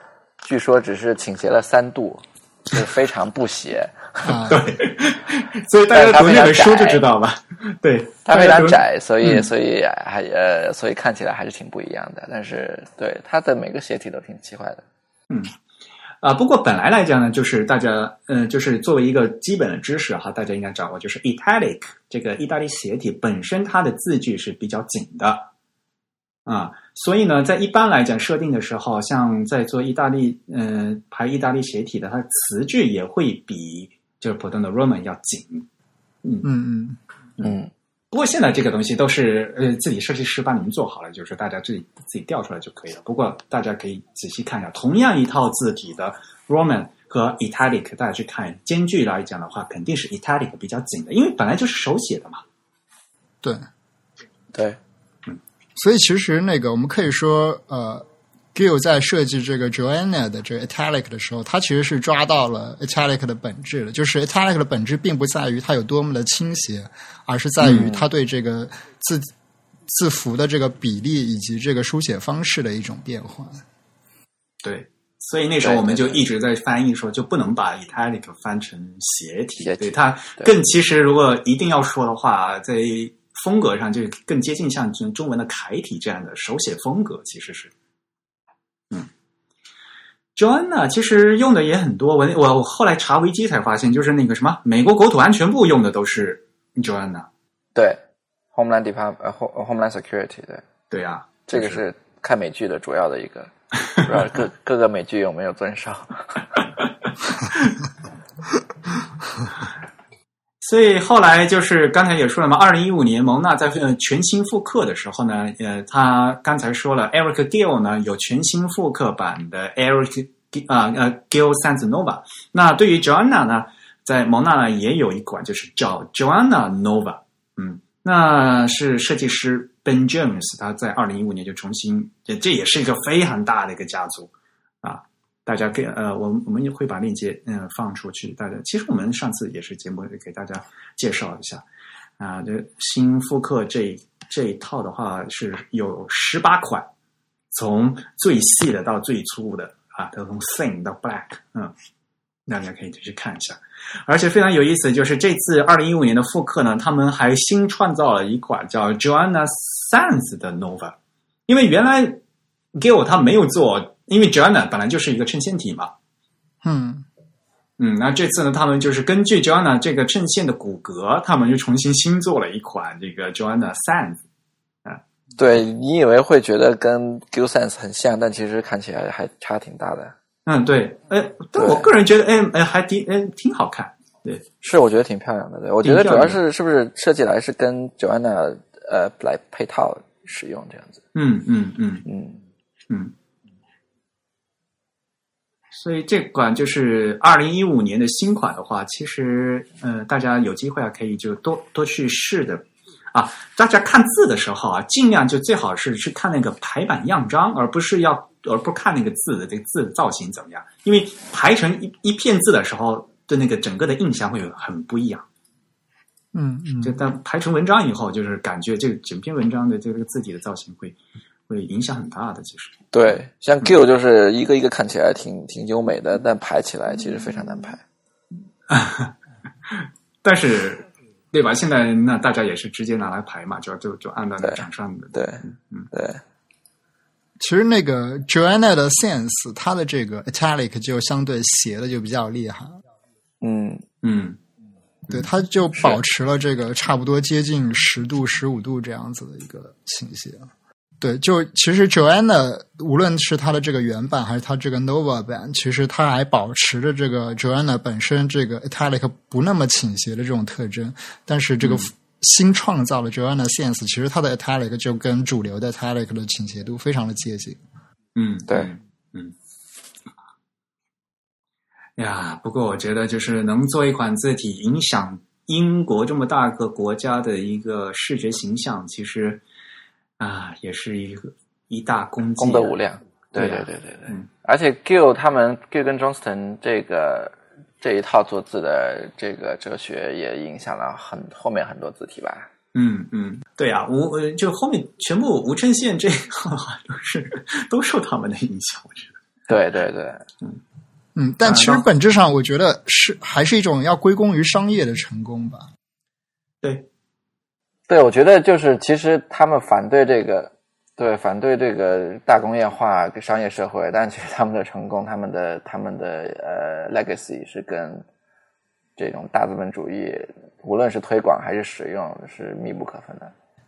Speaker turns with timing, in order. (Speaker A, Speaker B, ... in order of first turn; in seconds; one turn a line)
Speaker A: 0.4-4.4
Speaker B: 4.2-4.6
Speaker C: 4.5-9.5
Speaker A: 5.9-7.0
Speaker A: 8.2-14.8
Speaker C: 16.2-25.5
Speaker C: 26.4-35.7
Speaker B: 36.4-37.0
Speaker A: 37.4-37.7
Speaker C: 38.1-52.4
Speaker B: 55.8-69.3
Speaker A: 67.7-68.1
Speaker B: 69.9-73.6
Speaker C: 74.6-87.7
Speaker A: 75.6-76.2
Speaker A: 79.6-80.5
Speaker C: 90.3-97.3
Speaker A: 97.7-98.0
Speaker A: 98.5-100.6
Speaker C: 100.9-101.8
Speaker A: 101.5-106.6
Speaker C: 110.6-141.7
Speaker C: 142.2-146.9
Speaker C: 147.5-151.7
Speaker C: 152.5-160.9
Speaker C: 161.5-162.2
Speaker C: 162.8-165.9
Speaker B: 166.6-167.1
Speaker C: 167.8-174.2
Speaker A: 175.4-180.1
Speaker C: 180.4-184.4
Speaker A: 181.6-181.9
Speaker A: 184.6-191.0
Speaker C: 185.8-186.4
Speaker C: 191.1-192.1
Speaker A: 192.1-192.4
Speaker C: 195.7-215.2
Speaker B: 216.3-217.0
Speaker C: 216.8-221.0
Speaker C: 221.5-223.7
Speaker A: 222.9-227.8
Speaker C: 228.7-229.1
Speaker C: 229.7-235.9
Speaker A: 234.4-236.2
Speaker B: 237.4-242.8
Speaker A: 243.4-243.8
Speaker C: 244.0-244.4
Speaker B: 245.1-250.5
Speaker B: 251.0-267.6
Speaker C: 261.6-261.9
Speaker C: 268.1-269.3
Speaker C: 272.0-279.4
Speaker C: 280.2-282.8
Speaker A: 282.4-292.5
Speaker C: 283.3-284.3
Speaker C: 292.7-299.2
Speaker A: 299.5-300.2
Speaker B: 301.1-305.7
Speaker C: 301.4-301.8
Speaker C: 306.6-306.9
Speaker A: 307.9-318.1
Speaker A: 319.0-323.3